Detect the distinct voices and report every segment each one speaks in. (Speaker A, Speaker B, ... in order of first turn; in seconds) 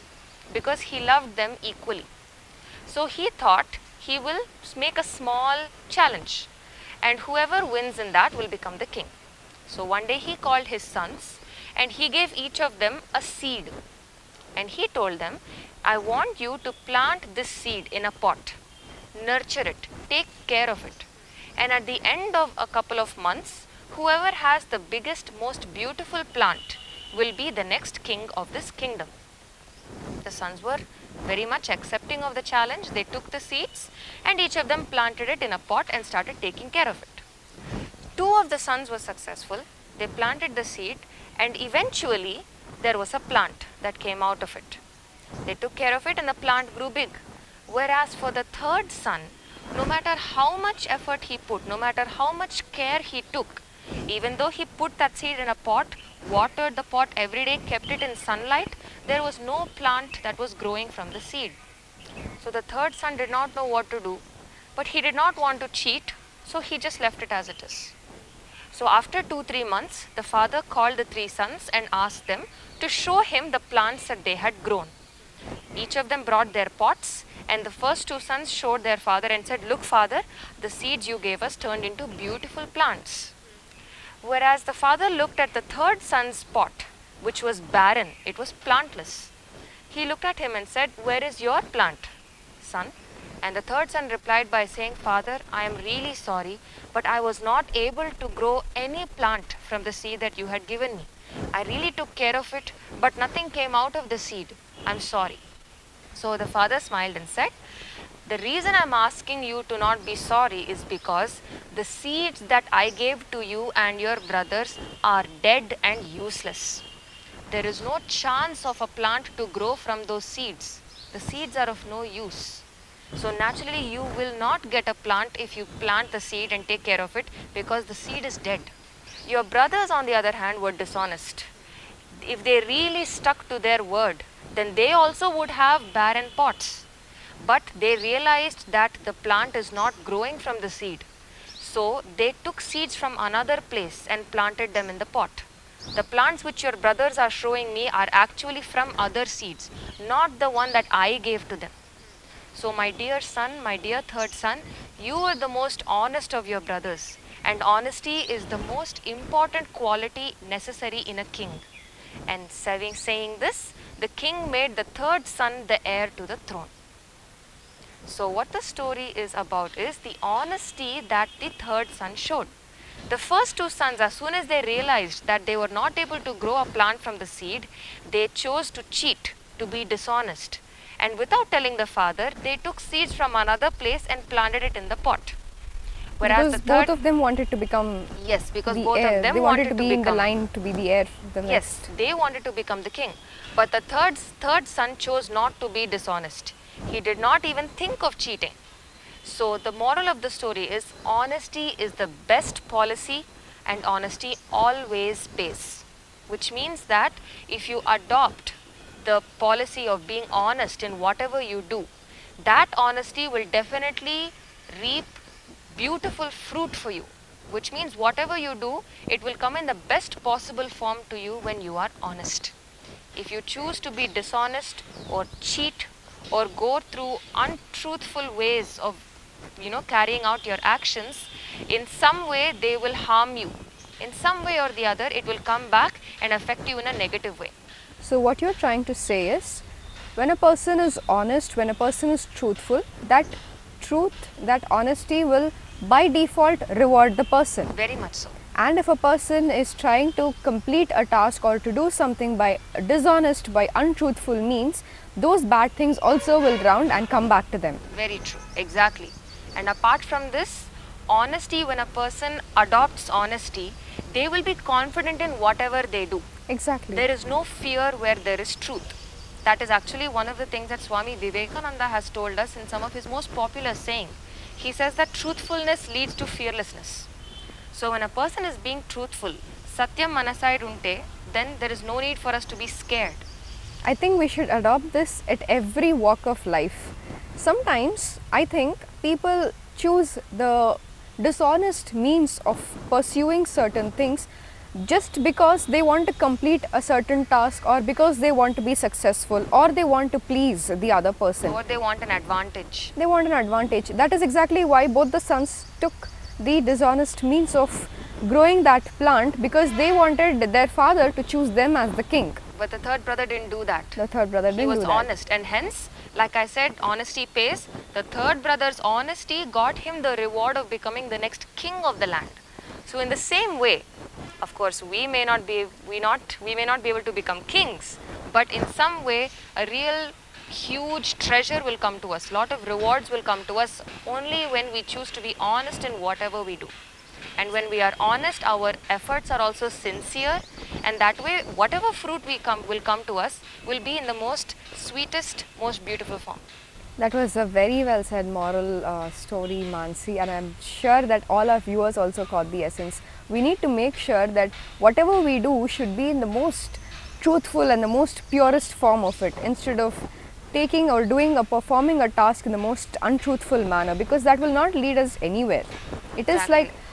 Speaker A: 0.5-2.1, 2.9-6.5, 7.0-9.1, 9.7-13.7, 14.6-18.6, 19.1-29.1, 30.2-37.2, 38.1-44.8, 45.4-61.6, 62.4-64.2, 64.8-67.9, 68.7-74.9, 75.7-83.3, 84.2-89.3, 89.9-105.4, 106.1-107.5, 108.2-116.8, 117.5-128.7, 129.2-131.5, 132.2-136.9, 137.4-141.1, 141.6-151.7, 152.5-161.6, 162.3-166.7, 168.0-172.5, 173.1-185.4, 186.2-186.9, 188.2-190.3, 191.4-198.6, 199.2-211.9, 212.4-215.2, 215.7-222.5, 223.1-229.0, 229.6-237.5, 247.7-248.4, 257.9-266.2, 266.9-277.1, 277.7-283.2, 301.4-302.9, 312.5-323.9, 324.4-336.7, 337.4-346.4, 366.3-366.7
Speaker B: 186.2-188.1, 188.7-191.8, 238.0-239.6, 240.2-247.7, 248.6-257.8, 266.5-267.1, 283.8-301.6, 303.0-312.4, 313.9-315.1, 347.0-366.7